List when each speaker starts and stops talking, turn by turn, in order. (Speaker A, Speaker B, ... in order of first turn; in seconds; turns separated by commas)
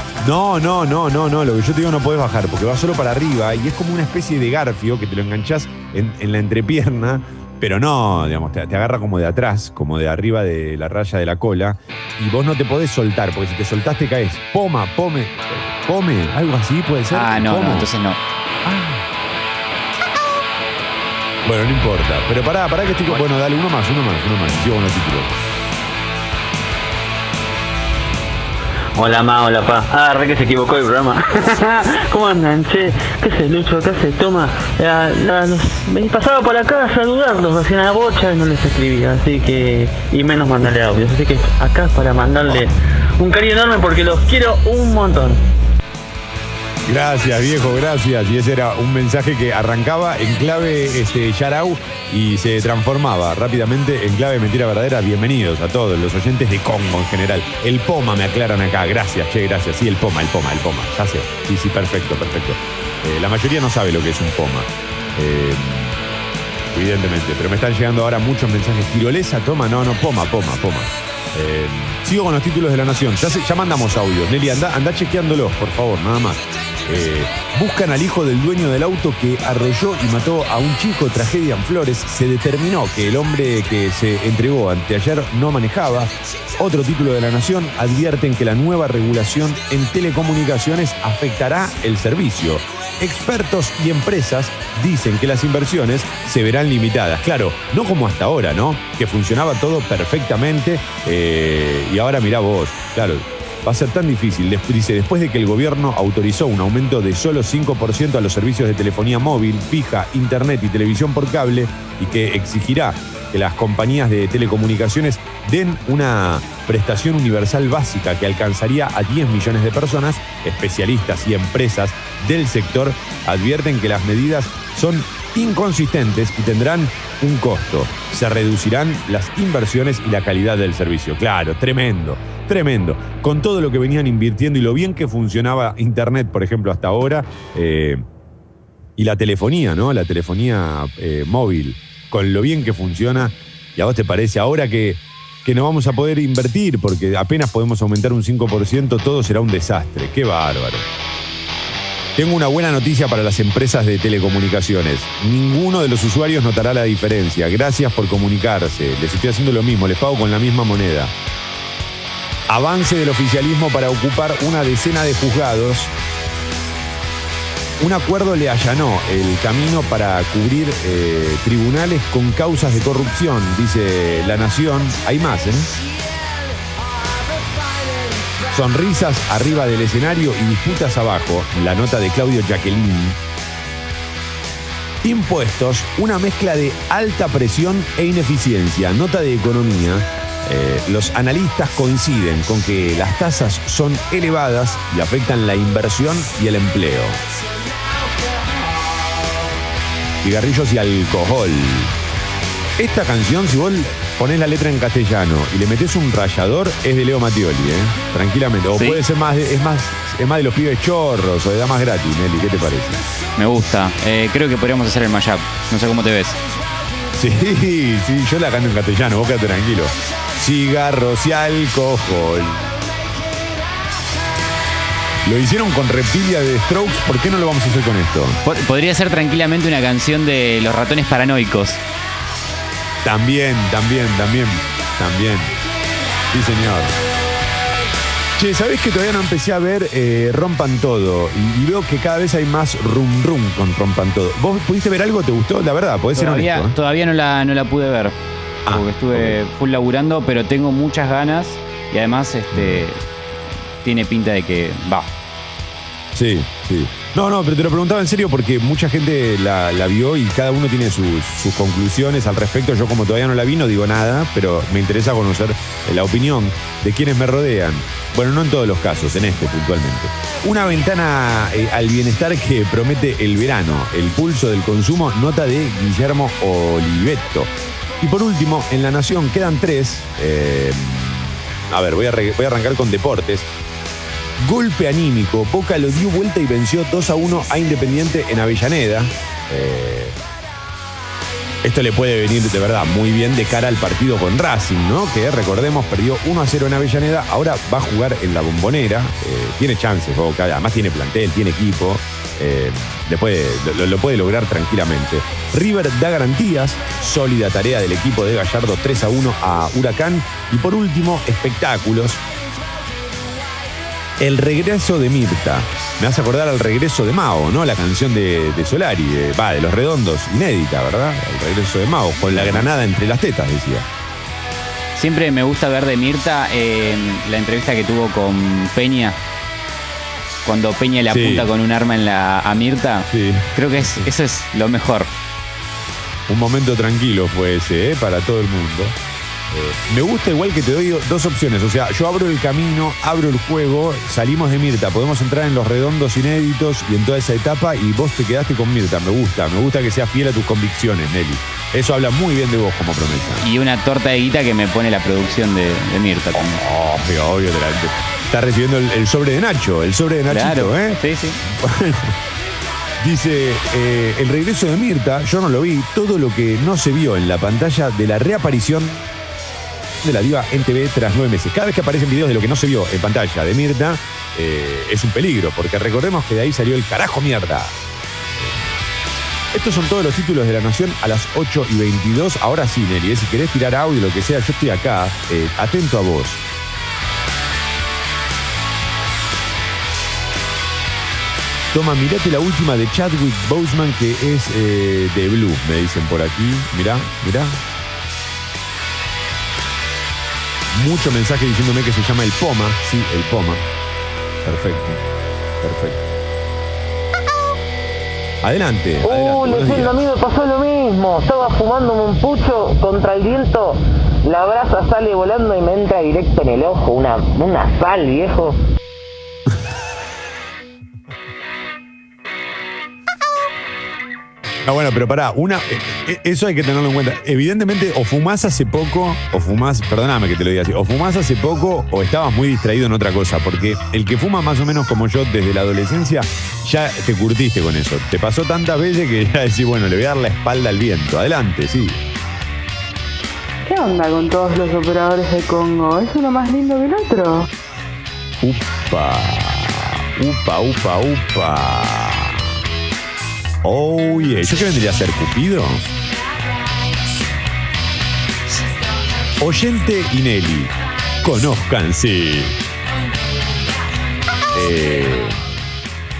Speaker A: 0.2-17.9, Speaker B: 17.1-18.2, Speaker A: 18.6-19.0, Speaker A: 21.4-25.4, Speaker C: 28.9-45.4, Speaker A: 46.8-66.0, Speaker A: 66.7-138.0, Speaker A: 139.0-150.8, Speaker A: 152.2-161.1, Speaker A: 162.5-165.9, Speaker A: 167.8-175.7, Speaker A: 178.5-183.2, Speaker A: 185.0-197.2, Speaker A: 200.2-201.9, Speaker A: 202.8-213.0, Speaker B: 208.7-209.0, Speaker B: 213.3-216.4, Speaker A: 217.1-222.7, Speaker A: 225.2-228.4, Speaker B: 228.4-231.8, Speaker A: 233.0-235.5, Speaker A: 236.3-236.9, Speaker A: 238.3-246.7, Speaker B: 246.1-248.1, Speaker A: 248.7-249.4, Speaker B: 248.7-253.0, Speaker A: 252.5-252.8, Speaker B: 253.8-255.1, Speaker A: 256.1-283.5, Speaker A: 284.4-290.2, Speaker A: 291.6-312.2, Speaker A: 314.2-323.9, Speaker B: 322.3-322.6, Speaker B: 324.9-329.2, Speaker B: 330.4-335.1, Speaker A: 331.1-331.5, Speaker A: 333.1-334.1, Speaker A: 336.3-338.9, Speaker A: 339.5-353.4, Speaker B: 353.4-356.6, Speaker A: 356.4-362.1, Speaker B: 360.3-361.4, Speaker A: 363.0-369.1, Speaker A: 370.0-377.8, Speaker A: 378.4-378.7, Speaker A: 379.5-386.4, Speaker A: 391.7-397.6, Speaker A: 400.7-403.6, Speaker A: 404.4-405.0, Speaker A: 405.6-406.0, Speaker A: 408.4-410.0, Speaker D: 409.0-418.5, Speaker A: 424.6-442.0, Speaker E: 443.6-447.4, Speaker A: 448.4-452.6, Speaker A: 453.6-455.9, Speaker A: 459.4-462.6, Speaker A: 464.5-465.4